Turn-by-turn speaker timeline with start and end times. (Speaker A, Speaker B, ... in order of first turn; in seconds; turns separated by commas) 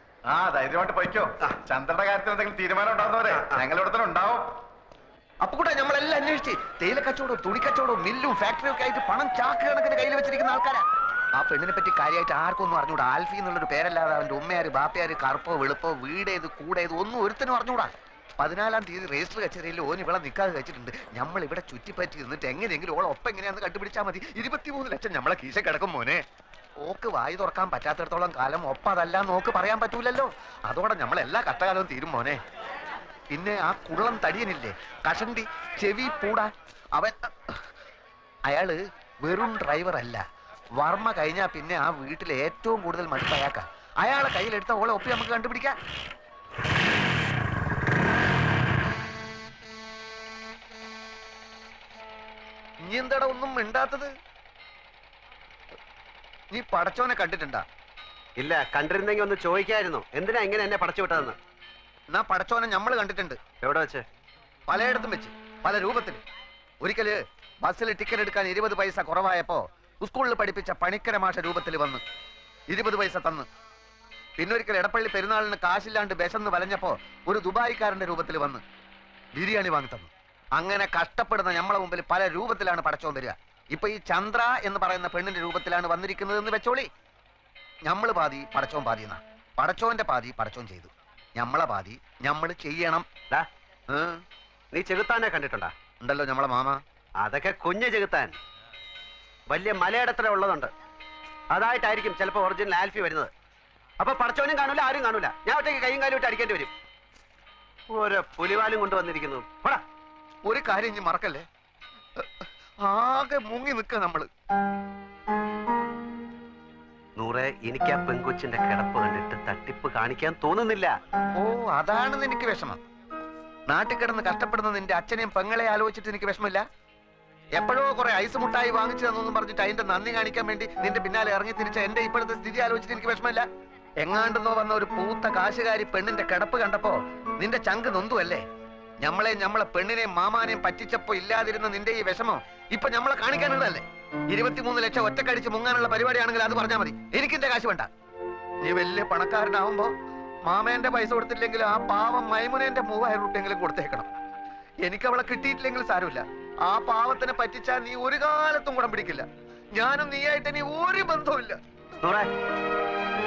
Speaker A: 0.3-4.5, Speaker B: 3.3-3.6, Speaker C: 5.4-10.8, Speaker C: 11.3-26.2, Speaker C: 26.8-32.4, Speaker C: 33.3-37.6, Speaker C: 38.5-40.2, Speaker C: 40.8-45.8, Speaker C: 52.8-54.1, Speaker C: 56.5-57.6, Speaker B: 58.4-61.4, Speaker C: 62.1-63.4, Speaker B: 63.6-64.0, Speaker C: 64.7-66.2, Speaker C: 66.8-72.0, Speaker C: 72.7-73.5, Speaker C: 74.4-78.6, Speaker C: 79.3-86.9, Speaker C: 87.9-93.1, Speaker C: 93.9-94.2, Speaker B: 94.7-95.7, Speaker C: 96.0-96.8, Speaker B: 97.2-98.3, Speaker B: 99.5-100.7, Speaker B: 101.5-103.3, Speaker B: 104.0-106.7, Speaker B: 107.9-109.8, Speaker C: 110.5-111.5, Speaker C: 112.9-114.3, Speaker B: 117.2-120.9, Speaker C: 121.4-122.8, Speaker C: 123.7-126.6, Speaker C: 127.6-133.4, Speaker C: 134.0-138.4, Speaker C: 139.0-147.9, Speaker C: 148.6-149.9, Speaker C: 150.5-154.1, Speaker C: 154.9-161.6, Speaker B: 162.0-162.3